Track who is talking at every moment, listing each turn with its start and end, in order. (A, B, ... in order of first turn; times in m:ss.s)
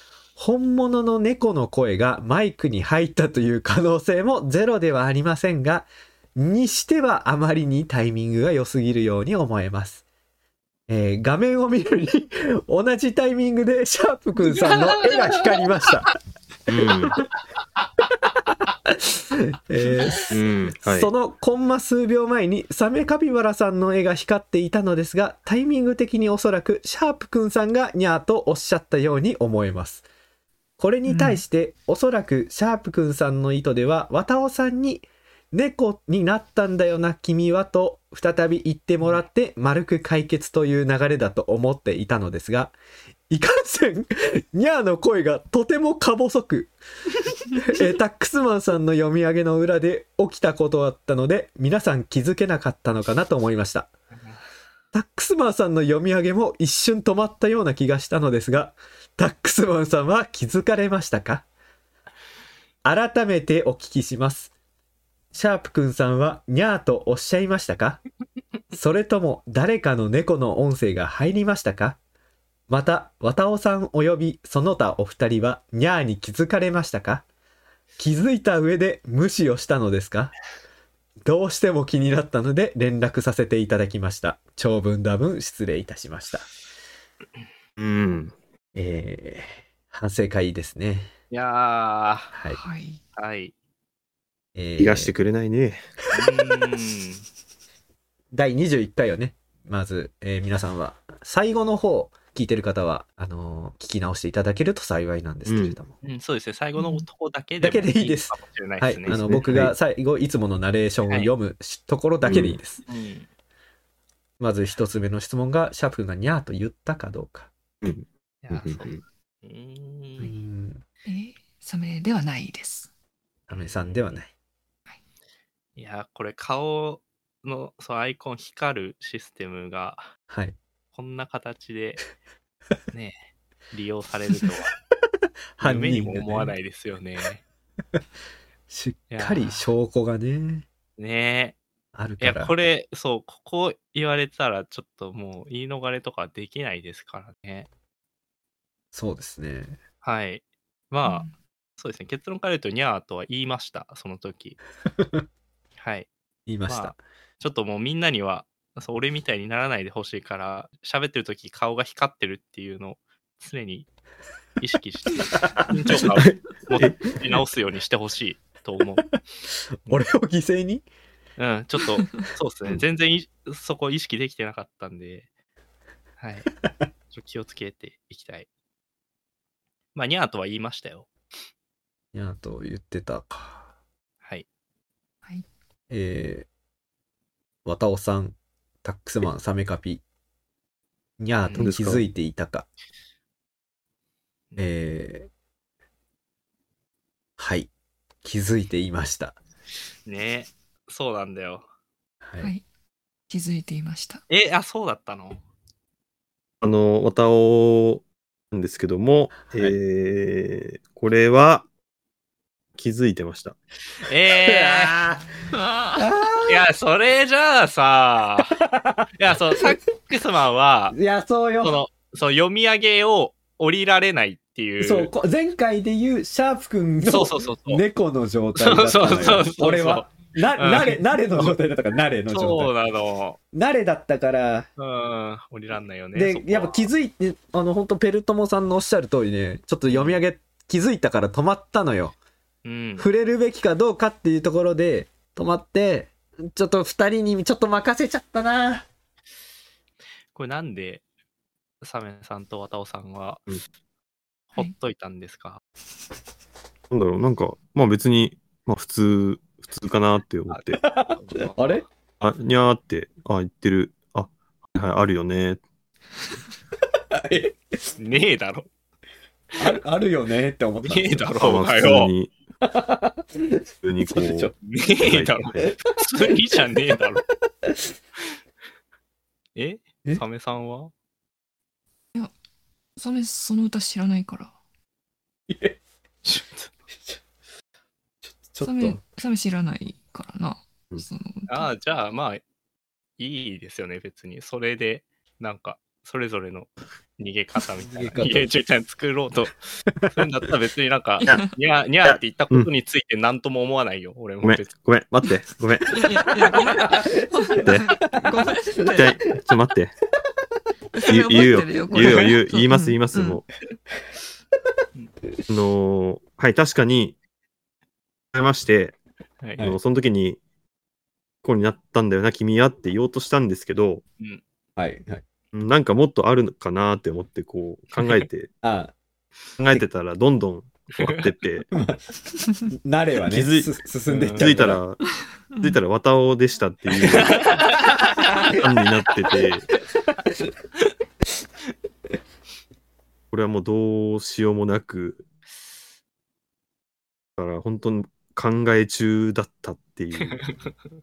0:00.4-0:10.0 A
0:10.9-0:16.1 A
0:16.7-0:17.2 B
0:18.2-0:30.0 A
0:20.3-0:21.1 B
0:30.8-0:42.7 A
0:31.0-0:31.4 C
0:43.3-0:46.7 A
0:47.5-0:53.9 A
0:54.9-1:01.4 A
1:02.8-1:04.5 A
1:05.3-1:08.0 A
1:08.7-1:12.0 A
1:12.7-1:17.2 A
1:18.0-1:20.3 A
1:21.2-1:26.5 A
1:27.8-1:28.3 B
1:28.7-1:31.1 A
1:31.3-1:32.3 D
1:32.3-1:32.6 A
1:32.5-1:33.0 C
1:33.2-1:33.5 D
1:34.6-1:35.1 A
1:34.8-1:35.8 B
1:36.1-1:37.2 D
1:38.3-1:45.9 A
1:45.4-1:45.8 B
1:46.0-1:49.3 D
1:46.8-1:47.0 C
1:47.6-1:52.8 A
1:49.1-1:49.7 B
1:52.2-1:52.6 B
1:52.9-1:53.3 D
1:54.4-1:57.5 A
1:57.8-1:59.0 B
1:58.4-2:00.3 D
2:00.2-2:00.8 A
2:01.0-2:02.9 C
2:03.5-2:04.3 A
2:03.5-2:04.1 D
2:05.8-2:10.1 D
2:10.3-2:10.6 A
2:10.9-2:12.0 D
2:12.9-2:14.7 D
2:15.6-2:16.5 A
2:15.6-2:17.4 D
2:18.7-2:20.6 A
2:19.1-2:19.7 D
2:21.0-2:21.6 D
2:21.9-2:22.5 A
2:22.2-2:27.7 D
2:28.9-2:29.8 A
2:30.0-2:31.3 D
2:31.0-2:31.3 C
2:31.8-2:34.6 D
2:35.0-2:35.2 A
2:35.8-2:36.1 D
2:36.5-2:37.0 A
2:36.7-2:43.9 D
2:44.6-2:49.1 D
2:45.3-2:47.0 A
2:49.8-2:50.8 A
2:51.4-2:55.3 D
2:56.2-2:56.5 D
2:57.1-2:58.5 D
2:59.9-3:01.1 D
3:02.1-3:03.6 A
3:05.9-3:06.5 A
3:07.6-3:10.0 A
3:11.2-3:12.7 A
3:11.4-3:11.7 D
3:11.6-3:12.0 B
3:14.6-3:15.3 A
3:17.4-3:17.7 A
3:18.2-3:19.4 A
3:20.0-3:21.6 D
3:22.2-3:22.5 A
3:23.3-3:24.2 C
3:24.3-3:25.4 D
3:26.6-3:31.7 B
3:32.8-3:33.6 B
3:34.0-3:35.0 D
3:34.4-3:35.3 A
3:35.5-3:36.1 C
3:36.0-3:36.6 A
3:36.4-3:38.6 D
3:38.6-3:39.1 A
3:39.1-3:41.0 D
3:40.9-3:41.8 A
3:41.6-3:45.1 D
3:44.8-3:52.7 A
3:47.0-3:47.8 D
3:48.6-3:51.6 D
3:52.3-3:53.4 D
3:53.5-3:54.7 A
3:54.8-3:56.8 D
3:56.1-4:02.2 A
3:59.9-4:00.2 D
4:02.6-4:03.1 D
4:03.0-4:08.8 A
4:10.3-4:11.0 D
4:11.8-4:13.4 D
4:14.5-4:15.6 D
4:16.9-4:20.8 B
4:20.5-4:21.8 D
4:20.8-4:21.8 A
4:22.2-4:25.6 B
4:27.1-4:27.6 A
4:28.0-4:28.7 D
4:29.6-4:31.3 A
4:30.8-4:32.1 D
4:31.3-4:32.3 B
4:32.6-4:34.5 A
4:33.8-4:35.7 B
4:34.6-4:37.2 D
4:39.6-4:40.9 D
4:43.0-4:44.5 C
4:45.5-4:45.8 A
4:46.2-4:46.7 D
4:48.2-4:49.0 A
4:48.6-4:51.7 C
4:51.5-4:52.4 D
4:53.2-5:04.7 D
4:57.8-4:58.5 A
5:01.2-5:01.5 B
5:02.0-5:02.7 B
5:04.4-5:06.0 B
5:05.9-5:09.2 C
5:05.9-5:09.0 A
5:07.6-5:07.9 B
5:08.8-5:09.9 B
5:10.9-5:13.4 C
5:11.1-5:13.4 B
5:15.5-5:17.2 B
5:18.3-5:19.0 B
5:19.4-5:19.7 D
5:19.6-5:20.4 B
5:21.4-5:24.0 B
5:24.8-5:25.2 A
5:25.5-5:28.5 B
5:28.6-5:28.9 A
5:29.6-5:31.7 B
5:31.7-5:32.0 A
5:32.7-5:34.8 A
5:33.2-5:33.7 B
5:34.1-5:34.5 D
5:34.3-5:35.0 B
5:35.5-5:35.8 C
5:35.6-5:37.6 B
5:37.6-5:37.9 D
5:38.3-5:38.6 A
5:38.5-5:39.6 B
5:40.0-5:40.5 A
5:43.3-5:45.2 B
5:47.4-5:50.4 B
5:50.3-5:50.7 D